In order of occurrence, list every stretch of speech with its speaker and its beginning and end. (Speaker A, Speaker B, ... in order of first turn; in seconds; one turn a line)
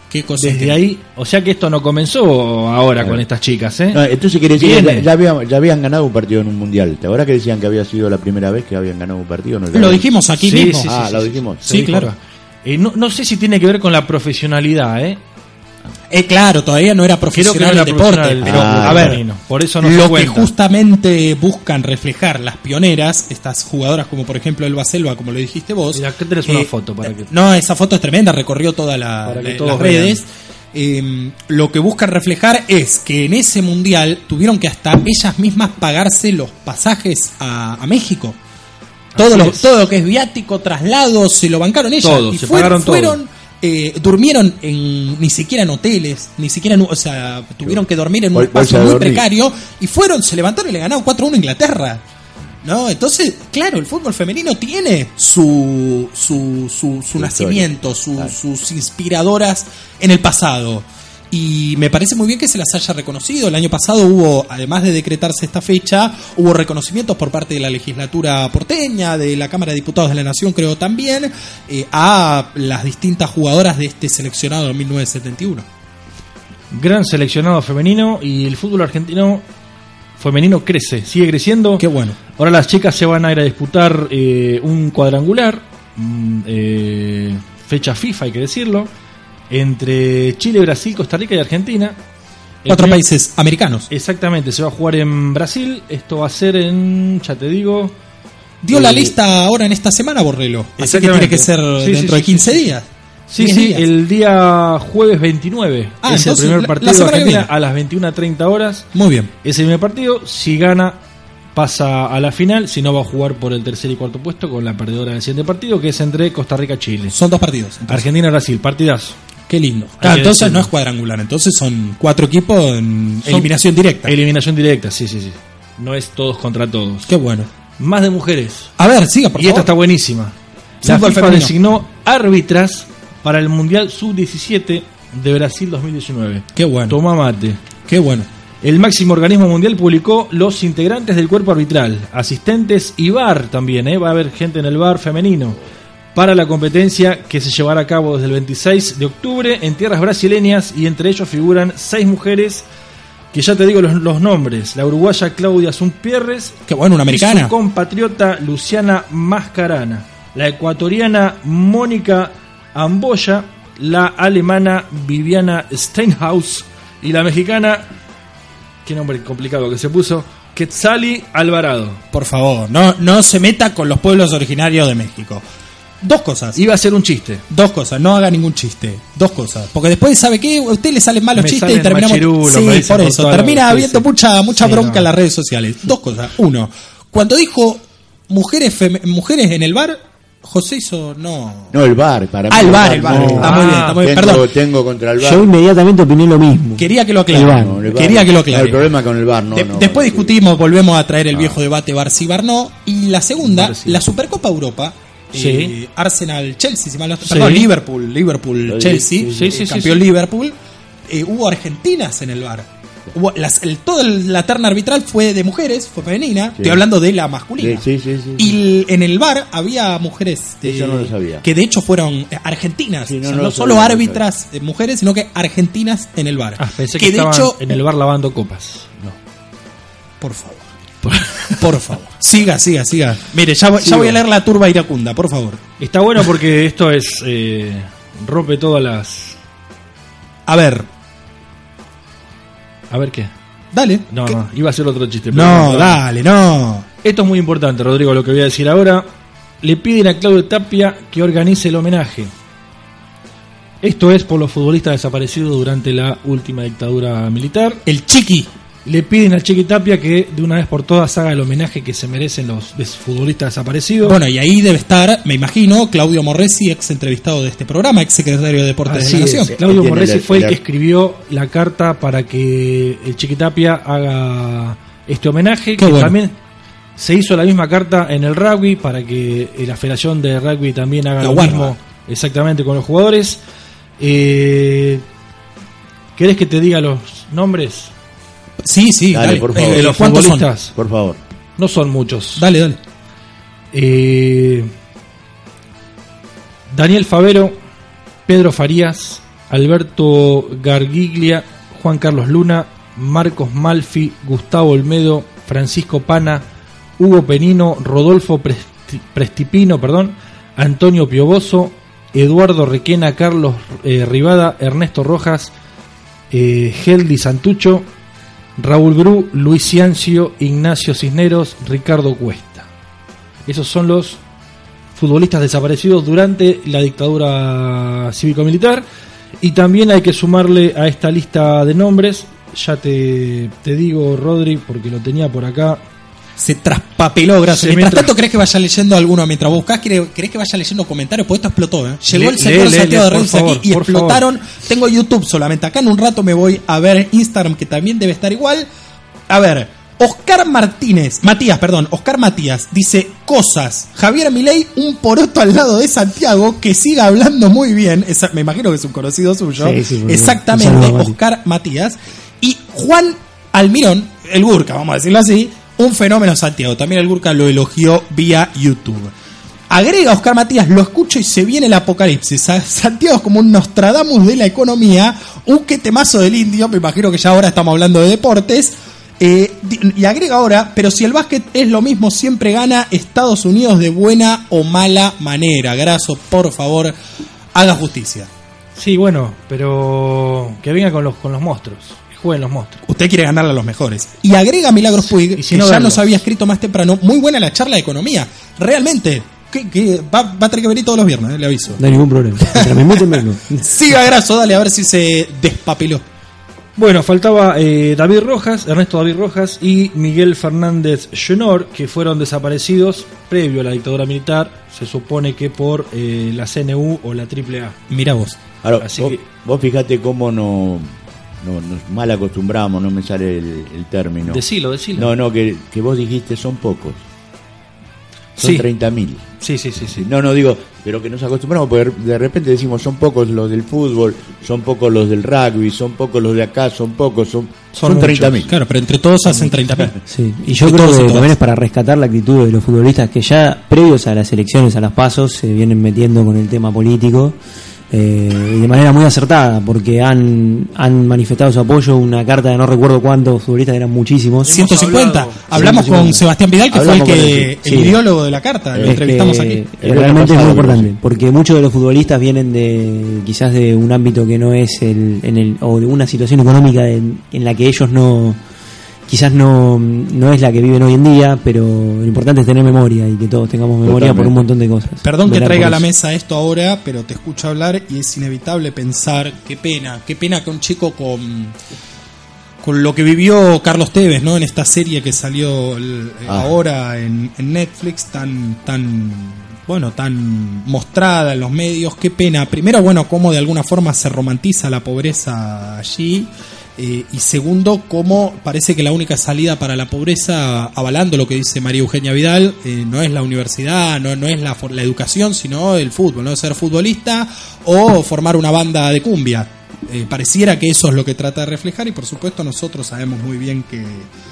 Speaker A: 0.1-0.8
Speaker B: 0.4-4.0
Speaker C: 3.9-10.1
Speaker B: 4.5-5.1
Speaker A: 9.7-10.9
Speaker B: 10.4-15.2
Speaker C: 10.9-11.6
Speaker A: 11.7-12.1
Speaker A: 16.1-19.2
Speaker B: 17.3-20.5
Speaker C: 18.4-19.2
Speaker A: 19.8-38.4
Speaker B: 25.9-27.3
Speaker B: 29.2-30.2
Speaker B: 39.1-39.8
Speaker A: 39.1-52.0
Speaker B: 42.0-43.2
Speaker C: 48.3-49.2
Speaker A: 52.6-75.6
Speaker C: 57.1-58.3
Speaker B: 76.7-79.4
Speaker B: 80.2-81.8
Speaker A: 81.8-82.2
Speaker B: 82.3-88.9
Speaker B: 89.5-92.0
Speaker B: 92.6-93.0
Speaker A: 92.7-93.9
Speaker B: 93.9-98.0
Speaker A: 98.6-102.9
Speaker B: 98.7-99.2
Speaker B: 100.8-102.8
Speaker B: 103.3-108.9
Speaker A: 103.4-103.8
Speaker A: 106.0-107.5
Speaker A: 108.9-109.3
Speaker B: 109.4-111.0
Speaker B: 111.5-117.2
Speaker A: 117.1-118.1
Speaker B: 117.9-119.2
Speaker A: 119.5-124.1
Speaker B: 120.0-120.7
Speaker B: 123.2-123.5
Speaker B: 124.0-127.1
Speaker A: 127.1-127.5
Speaker B: 127.8-128.7
Speaker A: 128.8-129.7
Speaker B: 129.3-137.6
Speaker A: 130.8-131.5
Speaker A: 136.5-137.0
Speaker A: 137.9-138.3
Speaker B: 138.6-145.6
Speaker B: 146.1-152.7
Speaker B: 153.3-167.9
Speaker A: 156.7-157.5
Speaker B: 168.8-172.0
Speaker A: 172.1-175.4
Speaker A: 176.0-176.6
Speaker B: 176.5-177.4
Speaker A: 177.5-191.8
Speaker B: 181.3-185.1
Speaker C: 191.7-195.5
Speaker A: 192.5-194.4
Speaker D: 193.2-193.5
Speaker B: 193.3-194.1
Speaker D: 195.2-198.0
Speaker A: 196.8-198.9
Speaker C: 197.6-200.3
Speaker A: 199.5-210.5
Speaker C: 201.3-201.6
Speaker B: 203.4-204.0
Speaker B: 205.3-205.7
Speaker B: 207.2-207.7
Speaker C: 208.7-209.5
Speaker B: 209.2-210.0
Speaker A: 211.1-217.8
Speaker C: 216.6-216.8
Speaker C: 217.6-218.6
Speaker A: 218.4-227.7
Speaker C: 220.6-221.4
Speaker C: 223.1-224.2
Speaker B: 226.6-229.2
Speaker A: 230.2-230.6
Speaker B: 231.0-231.8
Speaker A: 231.6-235.6
Speaker B: 233.8-234.2
Speaker B: 235.8-239.4
Speaker A: 240.5-240.9
Speaker B: 242.9-243.3
Speaker A: 243.7-244.3
Speaker B: 244.1-246.0
Speaker A: 245.3-246.8
Speaker B: 247.0-249.1
Speaker B: 249.6-252.3
Speaker B: 253.8-257.8
Speaker A: 257.9-258.5
Speaker B: 258.8-264.2
Speaker A: 264.0-269.5
Speaker B: 268.9-276.4
Speaker C: 269.5-270.6
Speaker A: 275.8-276.1
Speaker B: 277.0-283.4
Speaker A: 281.2-281.6
Speaker B: 284.0-285.0
Speaker B: 286.1-287.9
Speaker A: 288.6-290.5
Speaker C: 289.1-289.9
Speaker B: 289.5-290.7
Speaker C: 290.7-291.2
Speaker B: 291.6-292.4
Speaker A: 292.4-292.8
Speaker B: 293.7-294.7
Speaker B: 296.7-297.6
Speaker B: 298.3-306.4
Speaker B: 307.0-315.5
Speaker B: 316.3-317.9
Speaker B: 318.6-322.7
Speaker B: 323.4-324.2
Speaker B: 324.9-328.9
Speaker B: 329.4-335.8
Speaker A: 336.4-348.7
Speaker B: 337.4-338.1
Speaker B: 342.1-344.2
Speaker A: 349.3-369.1
Speaker D: 359.6-361.2
Speaker A: 369.7-386.9
Speaker A: 387.5-388.3
Speaker B: 388.7-392.8
Speaker A: 392.9-401.8
Speaker B: 395.1-396.2
Speaker D: 401.8-403.6
Speaker A: 402.5-406.0
Speaker B: 406.8-417.8
Speaker A: 417.9-418.4
Speaker C: 418.6-424.4
Speaker B: 418.8-419.2
Speaker B: 424.2-425.1
Speaker C: 424.9-427.0
Speaker B: 428.4-428.7
Speaker C: 428.4-429.2
Speaker B: 429.4-430.1
Speaker C: 430.0-438.5
Speaker B: 437.7-438.5
Speaker A: 438.5-439.9
Speaker B: 439.2-439.9
Speaker D: 440.1-447.4
Speaker A: 440.6-441.3
Speaker D: 447.9-454.6
Speaker B: 454.4-455.6
Speaker A: 454.5-459.6
Speaker D: 455.5-456.2
Speaker C: 456.7-457.5
Speaker D: 456.8-458.0
Speaker C: 458.7-459.0
Speaker D: 458.8-468.4
Speaker C: 459.8-461.0
Speaker D: 469.1-475.9
Speaker C: 473.8-474.4
Speaker A: 475.0-481.6
Speaker A: 482.6-514.1